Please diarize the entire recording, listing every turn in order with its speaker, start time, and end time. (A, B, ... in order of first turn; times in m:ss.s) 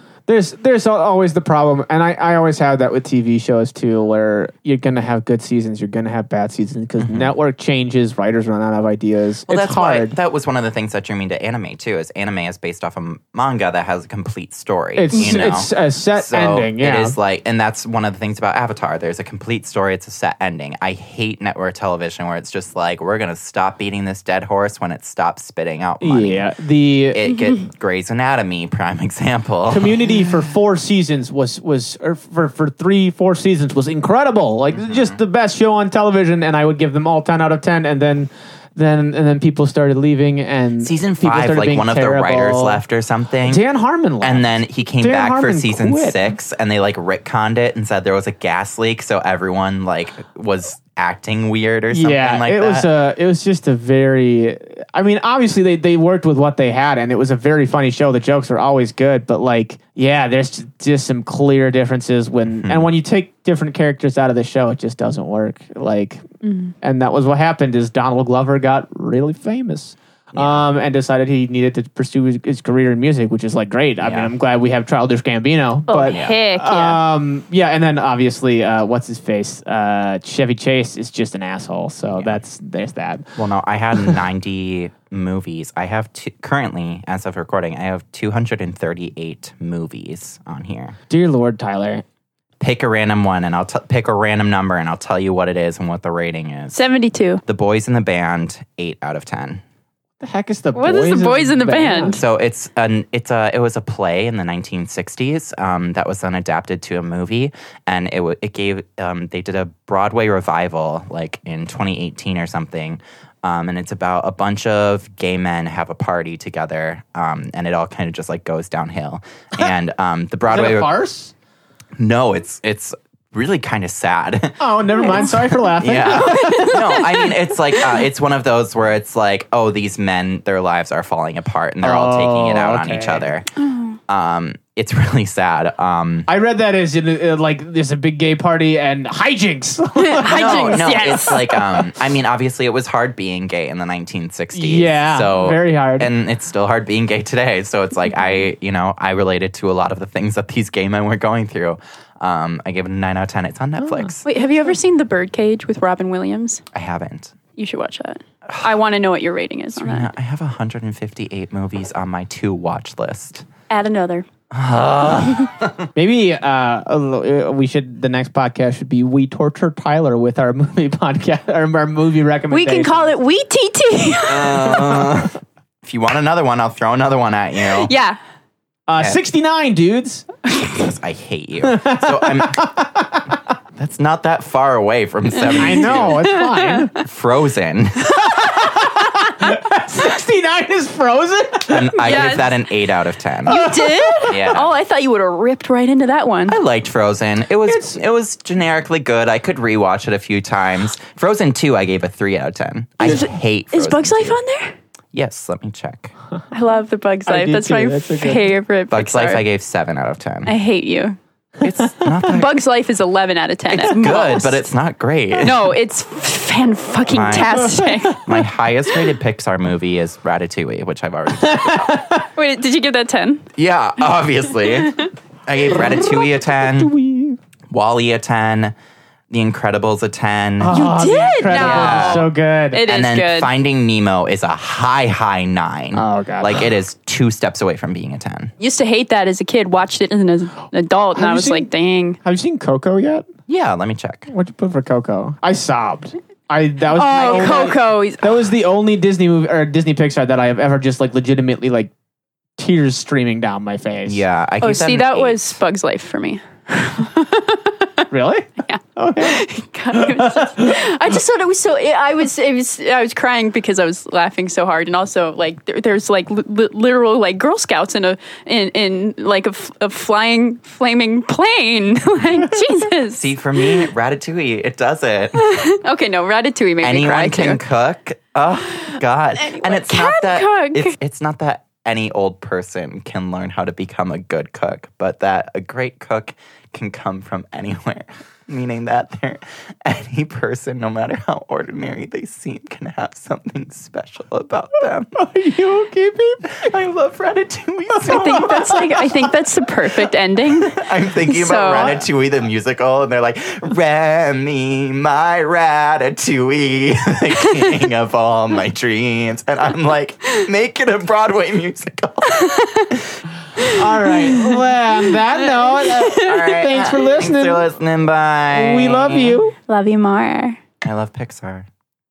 0:00.3-0:10.2 A
0:07.0-0:07.3 B
0:09.5-0:26.5 B
0:14.9-0:17.2 A
0:15.1-0:15.4 C
0:26.0-0:27.2 A
0:27.1-0:30.1 B
0:27.2-0:27.6 C
0:29.7-0:42.8 A
0:34.7-0:35.2 B
0:40.8-0:43.6 B
0:43.4-0:46.3 A
0:44.2-0:52.9 B
0:51.9-1:06.2 A
1:02.6-1:02.8 B
1:06.4-1:06.7 C
1:06.8-1:23.3 A
1:10.3-1:10.6 B
1:14.0-1:14.3 B
1:15.9-1:17.0 C
1:16.1-1:16.4 B
1:22.1-1:22.4 B
1:23.4-1:31.0 B
1:31.1-1:32.0 A
1:32.6-1:36.8 B
1:36.7-1:37.4 C
1:37.4-1:39.6 B
1:40.2-1:42.2 A
1:40.7-1:42.2 C
1:42.2-2:00.9 B
2:00.5-2:01.3 A
2:02.0-2:13.5 B
2:04.6-2:07.1 A
2:06.3-2:07.4 C
2:11.8-2:13.4 A
2:13.6-2:14.0 C
2:14.1-2:16.3 B
2:16.3-2:21.0 A
2:20.0-2:21.8 C
2:20.2-2:34.2 B
2:24.5-2:26.1 A
2:33.8-2:34.1 A
2:34.2-2:36.6 C
2:36.7-2:37.4 B
2:37.6-2:40.1 C
2:38.5-2:38.7 B
2:39.8-2:43.5 B
2:43.7-2:44.2 C
2:44.5-2:45.9 B
2:45.9-2:53.1 A
2:52.5-2:55.1 C
2:54.3-2:57.9 B
2:57.7-2:58.2 C
2:58.9-3:00.8 A
3:00.6-3:02.6 B
3:01.6-3:03.4 A
3:03.8-3:06.3 B
3:05.4-3:06.9 C
3:05.6-3:06.9 A
3:07.0-3:08.5 B
3:08.1-3:12.1 A
3:08.2-3:08.7 C
3:11.7-3:13.6 B
3:11.9-3:12.7 C
3:13.4-3:16.6 C
3:13.5-3:14.5 A
3:14.3-3:14.7 B
3:16.5-3:24.4 B
3:17.6-3:18.0 A
3:23.0-3:24.8 C
3:25.1-3:26.1 B
3:26.5-3:29.4 C
3:27.2-3:28.5 A
3:28.9-3:30.5 B
3:30.4-3:31.2 C
3:31.6-3:32.6 B
3:31.8-3:32.1 A
3:32.1-3:34.6 C
3:33.7-3:35.8 B
3:35.4-3:38.3 C
3:37.1-3:42.1 B
3:37.5-3:38.2 A
3:41.4-3:42.3 A
3:42.4-3:43.5 C
3:43.6-3:46.9 B
3:44.6-3:45.1 C
3:45.7-3:47.4 A
3:47.7-3:48.7 B
3:49.3-3:50.8 B
3:50.6-3:52.8 A
3:50.7-3:53.5 C
3:51.4-3:52.3 B
3:52.8-3:58.5 B
3:55.9-3:56.7 A
3:58.6-4:02.2 C
4:01.1-4:01.7 A
4:02.2-4:03.3 A
4:03.5-4:04.3 B
4:04.3-4:11.9 A
4:06.9-4:08.3 C
4:12.6-4:14.2 A
4:14.0-4:15.6 B
4:14.6-4:18.1 C
4:18.1-4:20.9 A
4:18.6-4:33.9 C
4:33.1-4:35.4 B
4:35.3-4:37.6 C
4:36.8-4:55.2 B
4:38.9-4:40.9 C
4:55.1-4:56.7 A
4:56.5-4:58.8 B
4:57.9-4:59.2 A
4:58.0-5:02.0 C
5:00.5-5:13.0 B
5:01.4-5:02.0 A
5:12.3-5:13.0 C
5:13.7-5:17.6 A
5:15.8-5:16.6 C
5:16.1-5:19.4 B
5:18.5-5:19.5 A
5:19.7-5:20.6 C
5:20.8-5:21.7 B